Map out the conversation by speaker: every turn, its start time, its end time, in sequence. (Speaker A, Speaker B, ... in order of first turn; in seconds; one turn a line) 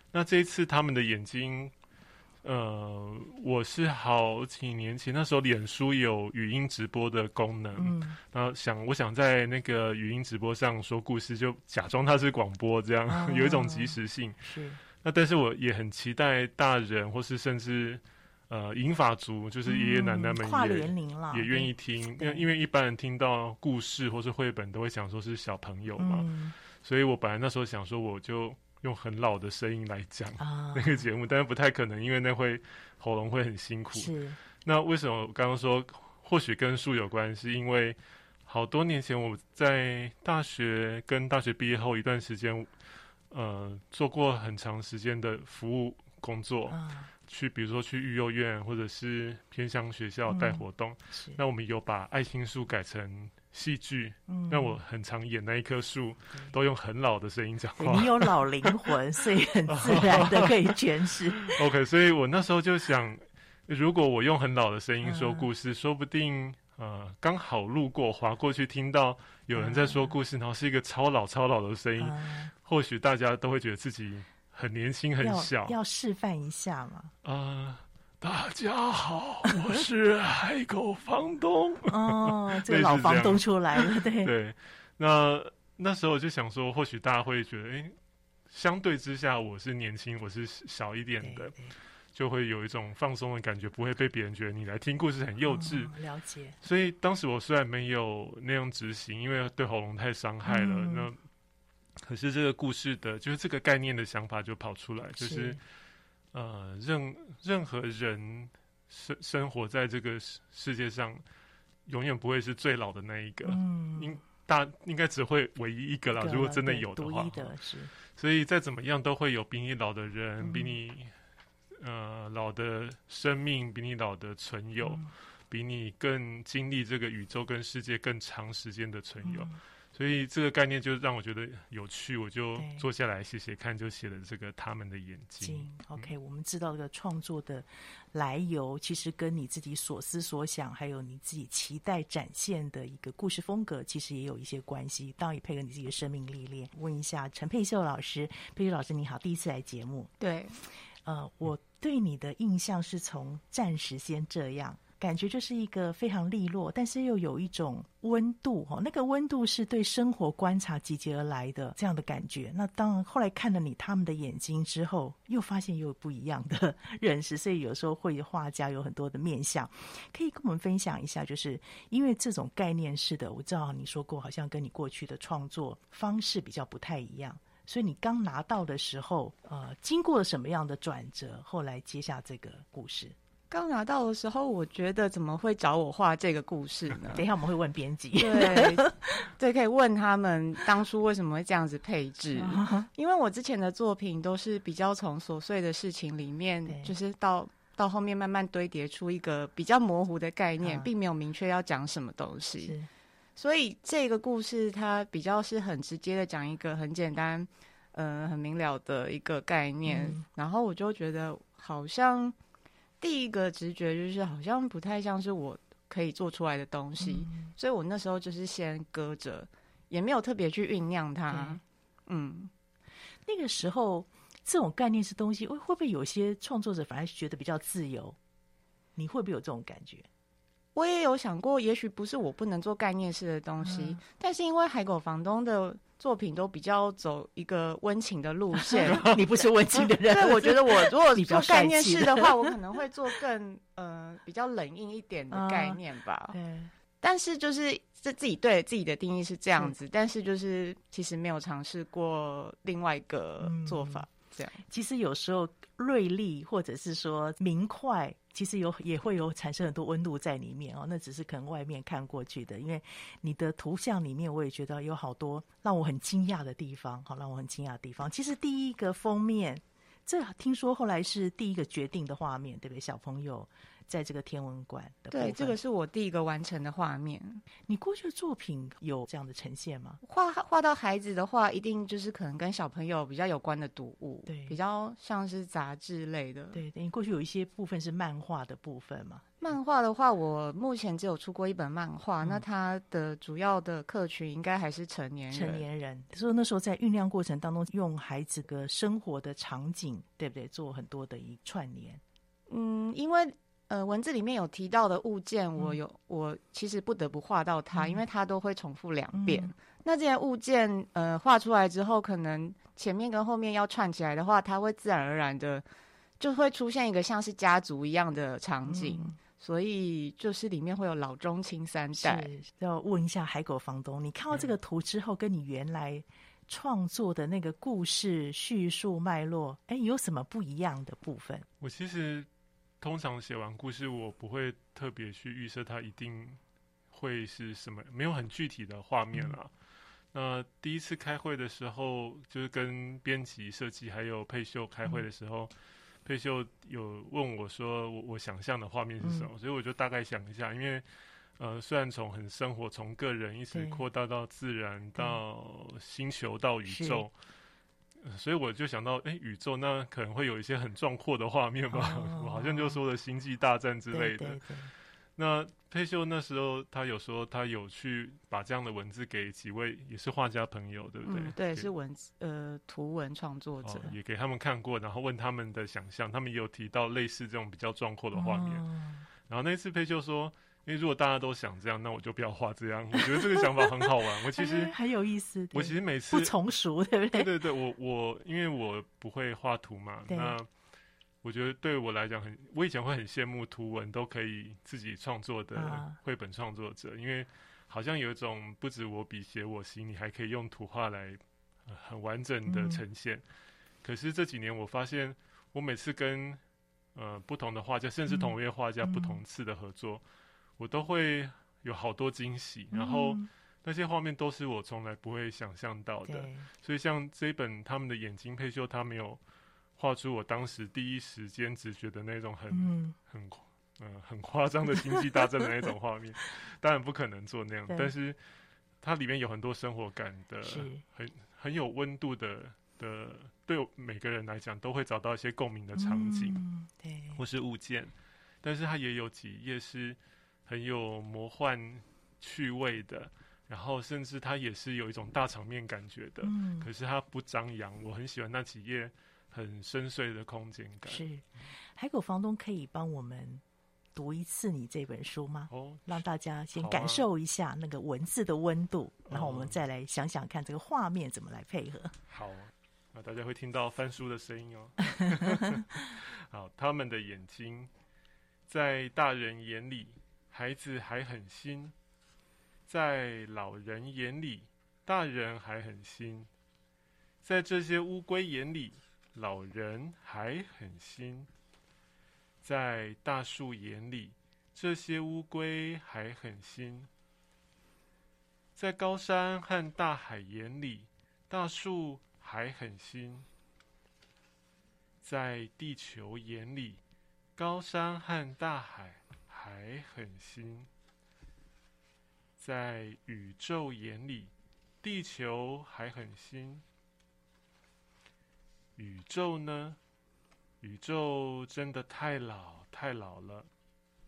Speaker A: 0.1-1.7
Speaker A: 2.4-14.4
Speaker B: 7.8-8.2
Speaker B: 13.1-14.8
Speaker A: 15.0-26.3
Speaker B: 19.6-22.5
Speaker B: 26.0-26.5
Speaker A: 26.8-42.7
Speaker B: 30.4-31.0
Speaker B: 33.9-34.4
Speaker A: 43.3-58.9
Speaker B: 46.7-47.1
Speaker B: 50.3-51.4
Speaker B: 54.3-54.8
Speaker B: 57.8-61.6
Speaker A: 59.7-60.8
Speaker A: 61.4-75.8
Speaker B: 65.0-65.5
Speaker B: 69.5-70.2
Speaker B: 72.0-72.5
Speaker B: 75.2-77.1
Speaker A: 77.2-87.9
Speaker B: 81.8-84.3
Speaker A: 88.5-91.6
Speaker B: 91.2-91.7
Speaker A: 92.1-96.0
Speaker B: 95.5-96.6
Speaker A: 96.6-101.2
Speaker B: 100.5-101.1
Speaker A: 102.0-105.6
Speaker B: 105.2-105.6
Speaker A: 106.3-111.2
Speaker A: 111.8-117.5
Speaker B: 113.4-114.2
Speaker B: 116.1-117.9
Speaker A: 118.1-121.1
Speaker B: 120.4-120.7
Speaker A: 121.8-136.1
Speaker B: 124.8-125.1
Speaker B: 129.2-129.6
Speaker B: 132.6-132.8
Speaker B: 135.4-150.1
Speaker C: 150.2-150.6
Speaker B: 150.7-183.1
Speaker C: 183.5-187.2
Speaker B: 187.1-189.2
Speaker C: 188.2-202.7
Speaker B: 192.3-192.9
Speaker B: 196.7-196.9
Speaker B: 200.6-200.9
Speaker B: 202.6-202.9
Speaker C: 203.4-212.3
Speaker B: 209.8-210.2
Speaker C: 213.0-222.5
Speaker B: 217.0-217.5
Speaker B: 221.3-221.6
Speaker B: 223.2-228.2
Speaker B: 228.9-230.1
Speaker C: 230.7-246.4
Speaker B: 233.6-234.0
Speaker B: 238.5-242.3
Speaker B: 245.3-246.7
Speaker C: 247.0-254.6
Speaker B: 253.4-254.0
Speaker B: 254.7-275.6
Speaker C: 275.1-277.4
Speaker B: 277.6-280.0
Speaker C: 280.0-286.6
Speaker B: 284.2-284.6
Speaker B: 286.5-289.3
Speaker C: 289.4-295.6
Speaker B: 295.3-302.0
Speaker C: 302.5-315.6
Speaker B: 307.7-308.0
Speaker B: 309.1-309.5
Speaker C: 316.2-322.3
Speaker B: 318.6-319.2
Speaker B: 322.0-331.4
Speaker A: 331.6-332.3
Speaker A: 332.8-336.4
Speaker A: 336.9-339.5
Speaker A: 340.1-345.5
Speaker A: 346.0-350.9
Speaker B: 349.0-349.3
Speaker A: 351.4-357.1
Speaker B: 353.5-353.8
Speaker B: 356.6-357.1
Speaker A: 358.0-364.5
Speaker B: 361.7-362.8
Speaker B: 363.9-364.7
Speaker A: 365.1-371.7
Speaker C: 371.1-373.9
Speaker A: 373.6-378.6
Speaker B: 378.1-379.1
Speaker A: 379.3-384.8
Speaker B: 383.0-387.3
Speaker A: 385.5-386.3
Speaker A: 387.1-390.5
Speaker B: 390.1-390.4
Speaker A: 391.2-403.2
Speaker B: 395.5-395.9
Speaker B: 402.4-402.8
Speaker A: 403.8-406.4
Speaker A: 406.9-410.0
Speaker B: 408.1-409.2
Speaker A: 410.6-419.2
Speaker B: 412.7-413.3
Speaker B: 416.1-416.5
Speaker A: 419.8-428.2
Speaker B: 422.5-422.9
Speaker B: 424.7-425.0
Speaker B: 427.7-427.9
Speaker A: 428.8-436.4
Speaker B: 430.4-430.8
Speaker B: 435.7-437.2
Speaker A: 437.1-451.0
Speaker B: 446.2-446.7
Speaker B: 450.8-453.4
Speaker B: 453.9-461.9
Speaker A: 455.5-456.0
Speaker A: 456.5-457.1
Speaker A: 459.1-459.6
Speaker A: 462.1-467.7
Speaker A: 468.5-471.7
Speaker A: 472.7-476.3
Speaker A: 477.2-481.3
Speaker A: 482.4-486.9
Speaker A: 488.6-493.3
Speaker A: 495.0-496.8
Speaker A: 497.4-500.7
Speaker A: 502.4-504.3
Speaker A: 504.8-506.6
Speaker A: 508.8-509.8
Speaker A: 510.6-513.5